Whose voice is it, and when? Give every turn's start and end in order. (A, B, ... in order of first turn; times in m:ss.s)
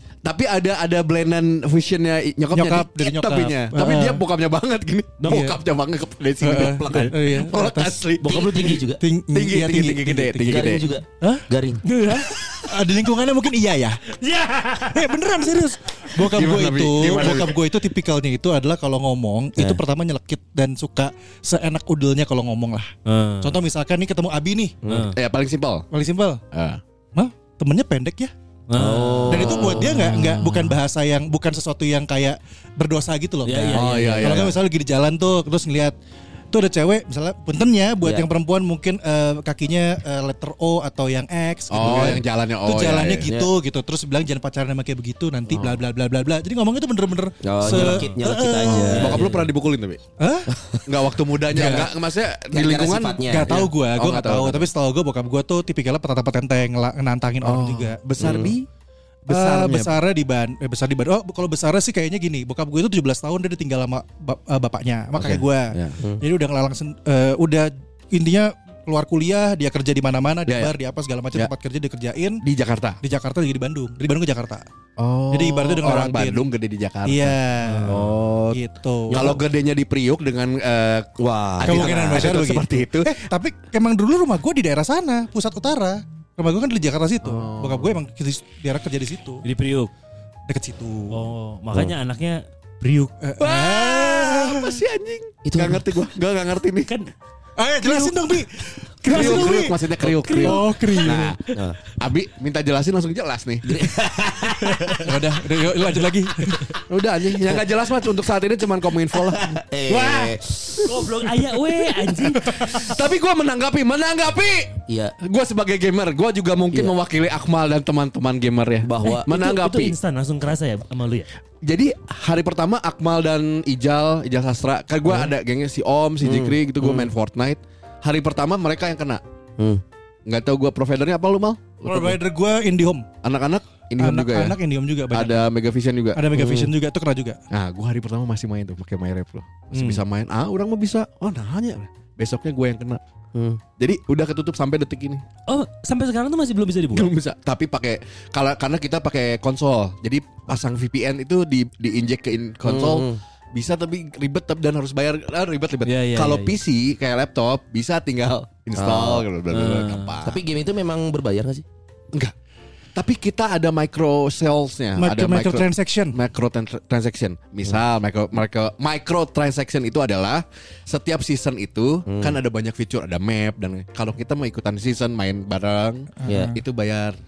0:00.2-0:10.9 A
0:02.5-0:04.2 B
0:05.2-0:05.5 C
0:05.3-0:05.6 B
0:06.4-0:08.0 B
0:06.5-0:07.2 D
0:08.2-0:09.0 D
0:08.9-0:10.6 B
0:10.4-0:11.8 D
0:11.8-0:12.6 C
0:12.6-0:14.0 B
0:14.1-0:15.1 C
0:14.9-0:24.8 B
0:16.3-0:17.6 A
0:23.1-0:23.6 C
0:24.8-0:25.1 D
0:24.9-0:25.1 C
0:25.1-0:25.9 A
0:25.9-0:26.4 B
0:26.5-0:26.8 A
0:27.1-0:28.3 B
0:28.7-0:29.6 C
0:28.7-0:30.0 D
0:29.3-0:36.0 B
0:29.4-0:30.7 A
0:33.4-0:34.3 C
0:33.6-0:34.3 D
0:33.7-0:34.6 A
0:36.5-0:49.3 B
0:41.7-0:43.3 A
0:45.5-0:45.8 A
0:47.4-0:49.5 D
0:48.6-0:50.0 A
0:50.2-0:50.5 B
0:50.5-0:50.9 D
0:50.9-0:54.7 A
0:51.5-0:51.9 B
0:52.5-0:53.7 D
0:53.3-0:58.5 B
0:57.4-0:58.6 A
0:58.2-0:58.5 D
0:59.3-1:12.4 B
0:59.3-0:59.9 A
1:05.1-1:06.0 A
1:10.5-1:10.7 A
1:12.4-1:13.0 A
1:13.0-1:14.6 B
1:15.0-1:23.1 A
1:15.3-1:16.5 B
1:17.1-1:19.4 B
1:17.7-1:18.0 C
1:21.2-1:22.4 D
1:21.6-1:29.4 B
1:27.2-1:28.0 A
1:29.4-1:29.9 C
1:30.5-1:31.3 B
1:31.1-1:33.1 C
1:33.2-1:34.8 B
1:33.4-1:36.9 A
1:35.4-1:35.9 D
1:37.6-1:39.8 B
1:37.8-1:38.1 C
1:39.1-1:41.2 C
1:39.1-1:43.8 A
1:40.4-1:41.3 B
1:41.0-1:41.8 D
1:43.6-1:45.1 D
1:45.0-1:46.7 B
1:46.9-1:49.5 A
1:49.1-1:51.2 D
1:49.9-1:50.3 C
1:50.9-1:52.7 C
1:52.7-1:59.9 A
1:54.9-1:55.2 D
1:58.8-1:59.3 D
1:59.0-2:01.3 C
2:01.6-2:09.2 A
2:06.2-2:07.1 D
2:10.2-2:12.2 A
2:11.8-2:13.1 B
2:13.2-2:14.6 A
2:14.0-2:15.4 B
2:15.1-2:16.2 A
2:16.1-2:17.4 B
2:16.3-2:16.7 D
2:17.5-2:23.0 A
2:19.7-2:20.0 C
2:23.4-2:23.6 D
2:23.8-2:25.2 A
2:25.5-2:27.1 C
2:26.9-2:40.4 A
2:32.6-2:33.2 D
2:35.9-2:36.6 C
2:38.7-2:39.3 D
2:39.5-2:40.1 C
2:40.2-2:41.6 D
2:43.0-2:57.2 A
2:45.0-2:46.2 B
2:52.1-2:52.4 D
2:56.2-2:56.6 B
2:56.2-2:56.5 D